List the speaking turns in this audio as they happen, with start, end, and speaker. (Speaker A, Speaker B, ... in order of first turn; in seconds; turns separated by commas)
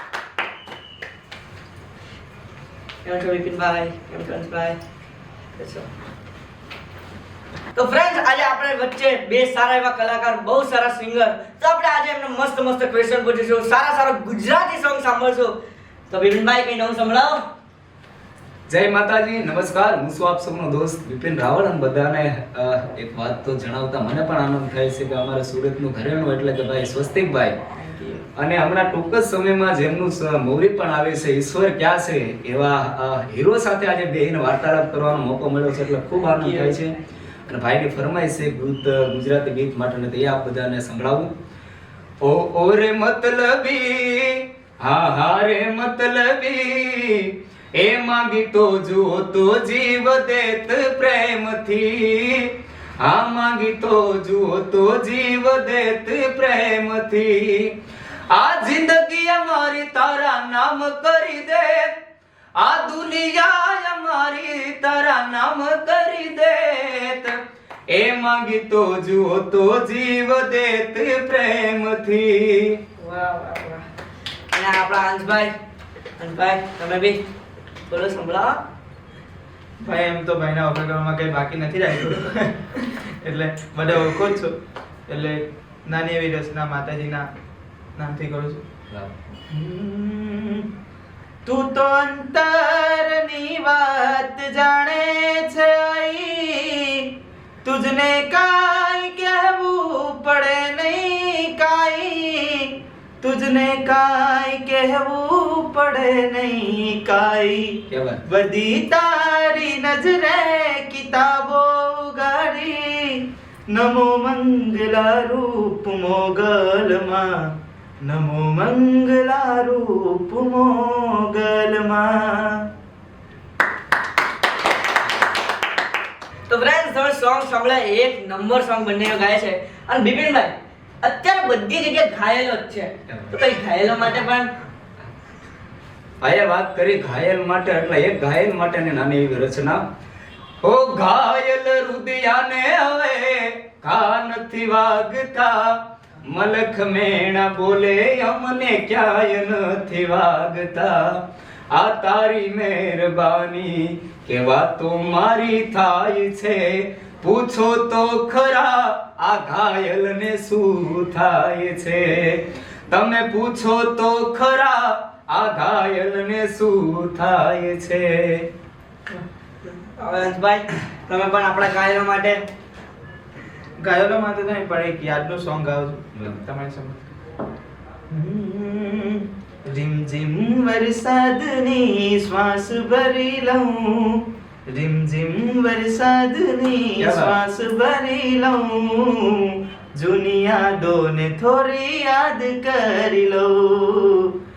Speaker A: 3.0-4.8, Speaker A: 5.6-5.9, Speaker A: 7.8-15.5, Speaker A: 16.1-17.4, Speaker B: 18.7-27.6, Speaker A: 27.8-28.2, Speaker B: 28.4-37.0, Speaker A: 36.3-36.8, Speaker B: 37.5-41.3, Speaker B: 42.2-57.8, Speaker B: 58.3-61.9, Speaker B: 62.6-67.4, Speaker B: 67.9-72.8, Speaker A: 73.0-73.8, Speaker A: 74.5-75.5, Speaker A: 76.2-77.2, Speaker A: 77.9-78.6, Speaker C: 79.8-84.5, Speaker C: 85.1-87.3, Speaker C: 88.0-88.6, Speaker C: 89.5-90.7, Speaker C: 91.5-97.0, Speaker C: 97.6-117.3, Speaker B: 107.9-108.2, Speaker C: 118.0-122.6, Speaker A: 126.5-134.5, Speaker B: 133.1-133.3, Speaker B: 136.2-139.8, Speaker B: 140.6-151.2, Speaker B: 151.7-168.5, Speaker A: 169.6-172.4, Speaker C: 173.8-177.0, Speaker B: 176.2-176.4, Speaker C: 178.1-194.3, Speaker B: 187.0-187.3